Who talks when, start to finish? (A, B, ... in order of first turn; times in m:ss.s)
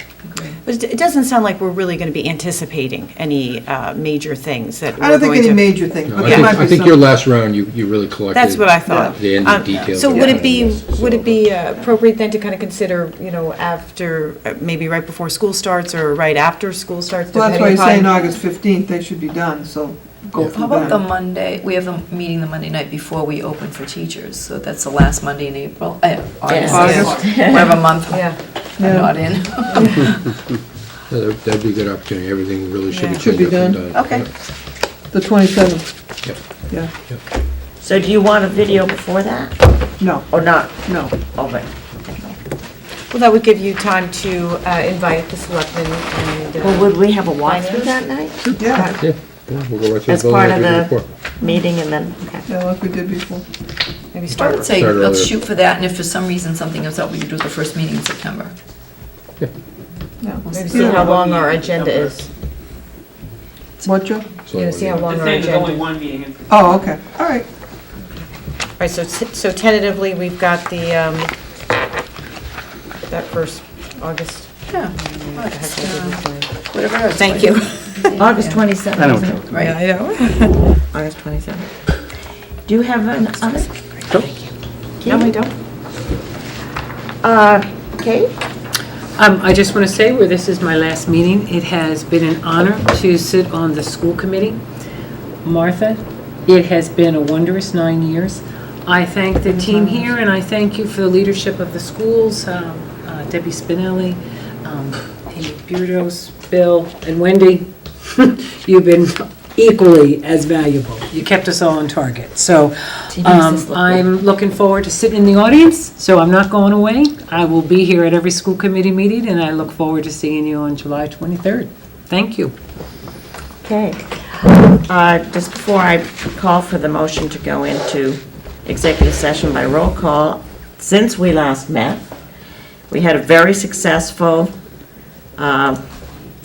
0:00.3-0:00.6 A
0:00.6-0:05.7 B
0:05.0-0:07.0 C
0:06.1-0:11.4 D
0:08.3-0:18.3 B
0:08.9-0:09.2 C
0:17.3-0:21.0 C
0:20.4-0:30.2 A
0:26.5-0:27.8 E
0:26.7-0:27.3 C
0:26.8-0:28.4 B
0:28.8-0:29.8 C
0:31.1-0:34.3 D
0:32.9-0:33.2 B
0:33.2-0:33.8 C
0:33.9-0:34.2 B
0:35.1-0:35.9 C
0:37.8-0:39.6 E
0:40.0-0:41.2 C
0:40.3-0:42.3 E
0:43.1-0:49.0 B
0:46.6-0:48.6 E
0:48.4-0:51.0 D
0:48.6-0:48.9 C
0:50.1-0:52.4 E
0:52.5-0:53.4 C
0:54.1-0:54.7 B
0:54.3-0:55.3 D
0:54.4-0:58.5 A
1:00.2-1:01.1 C
1:00.4-1:01.0 A
1:00.5-1:02.2 B
1:01.0-1:02.3 F
1:03.8-1:04.3 C
1:04.5-1:05.1 D
1:04.5-1:05.9 B
1:05.0-1:06.6 F
1:06.5-1:07.5 C
1:08.8-1:11.3 B
1:13.1-1:16.5 B
1:14.7-1:18.8 A
1:17.1-1:18.2 B
1:18.1-1:19.6 E
1:19.4-1:20.5 A
1:19.7-1:21.6 B
1:22.6-1:23.7 E
1:25.0-1:25.3 E
1:25.1-1:25.5 B
1:27.2-1:28.3 E
1:29.2-1:34.6 G
1:35.4-2:02.5 G
1:39.5-1:40.0 C
1:53.2-1:54.0 E
2:03.6-2:12.0 E
2:12.9-2:14.5 E
2:15.4-2:15.8 E